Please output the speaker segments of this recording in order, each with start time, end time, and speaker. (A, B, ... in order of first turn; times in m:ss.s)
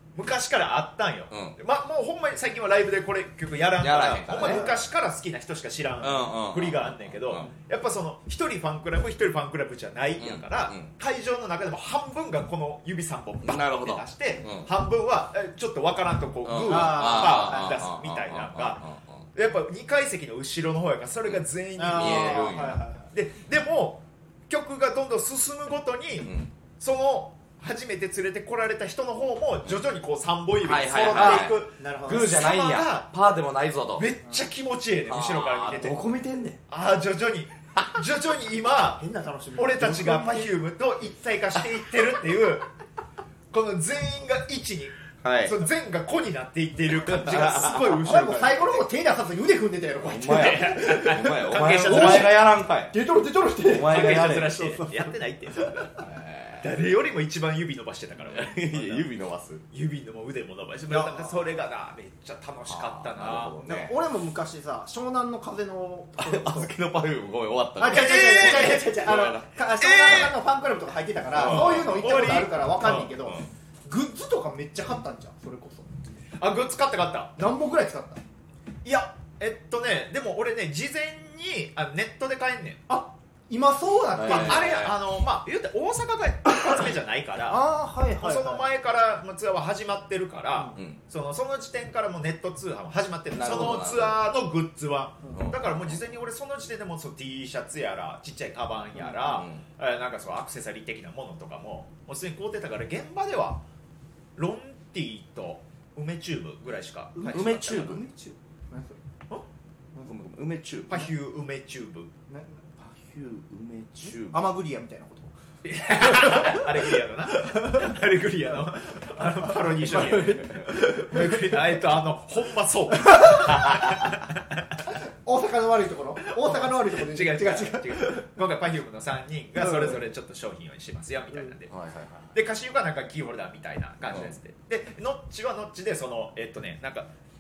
0:00.1-0:18.8 A
0:01.3-0:01.6 B
0:03.8-0:04.7 B
0:04.4-0:04.8 C
0:06.0-0:07.5 B
0:10.2-0:10.9 B
0:13.4-0:14.7 B
0:16.4-0:19.3 B
0:16.6-0:17.8 C
0:19.3-0:33.1 A
0:21.3-0:22.8 B
0:21.8-0:23.1 C
0:26.2-0:26.5 B
0:30.6-0:34.1 B
0:31.1-0:32.4 C
0:34.0-0:36.0 A
0:35.1-0:36.6 B
0:36.7-0:39.0 A
0:39.0-0:40.6 C
0:39.6-0:42.7 A
0:43.5-0:48.8 A
0:45.2-0:45.6 B
0:47.0-0:48.0 B
0:47.9-0:55.9 C
0:50.0-0:53.0 B
0:50.2-0:52.4 A
0:53.6-0:54.6 B
0:53.8-0:56.0 A
0:56.0-0:56.8 B
0:56.6-0:59.1 A
0:58.2-0:59.6 B
0:59.7-1:03.6 A
1:00.9-1:01.4 C
1:02.7-1:04.0 B
1:03.6-1:06.7 C
1:06.2-1:09.5 B
1:07.8-1:16.2 C
1:07.8-1:10.4 A
1:10.0-1:10.3 B
1:11.3-1:12.3 B
1:11.3-1:13.1 A
1:13.0-1:13.5 B
1:16.4-1:17.3 A
1:17.4-1:18.2 C
1:18.8-1:22.8 A
1:22.9-1:24.7 C
1:24.1-1:25.0 B
1:24.2-1:27.6 A
1:27.5-1:28.7 C
1:28.2-1:43.6 A
1:33.3-1:34.2 B
1:35.2-1:35.5 C
1:35.3-1:36.0 B
1:39.0-1:39.2 C
1:39.2-1:39.6 B
1:44.4-1:48.0 A
1:47.1-1:49.0 C
1:47.2-1:48.0 B
1:50.0-1:51.1 B
1:50.9-1:52.1 A
1:52.3-1:52.6 C
1:52.8-1:54.4 B
1:54.2-1:55.3 C
1:55.6-2:04.4 A
1:56.0-1:56.6 C
1:57.4-1:57.9 C
1:59.2-2:01.8 C
2:03.0-2:03.6 C
2:05.2-2:08.2 C
2:06.2-2:11.7 A
2:09.6-2:10.0 C
2:11.7-2:12.3 B
2:12.3-2:17.1 A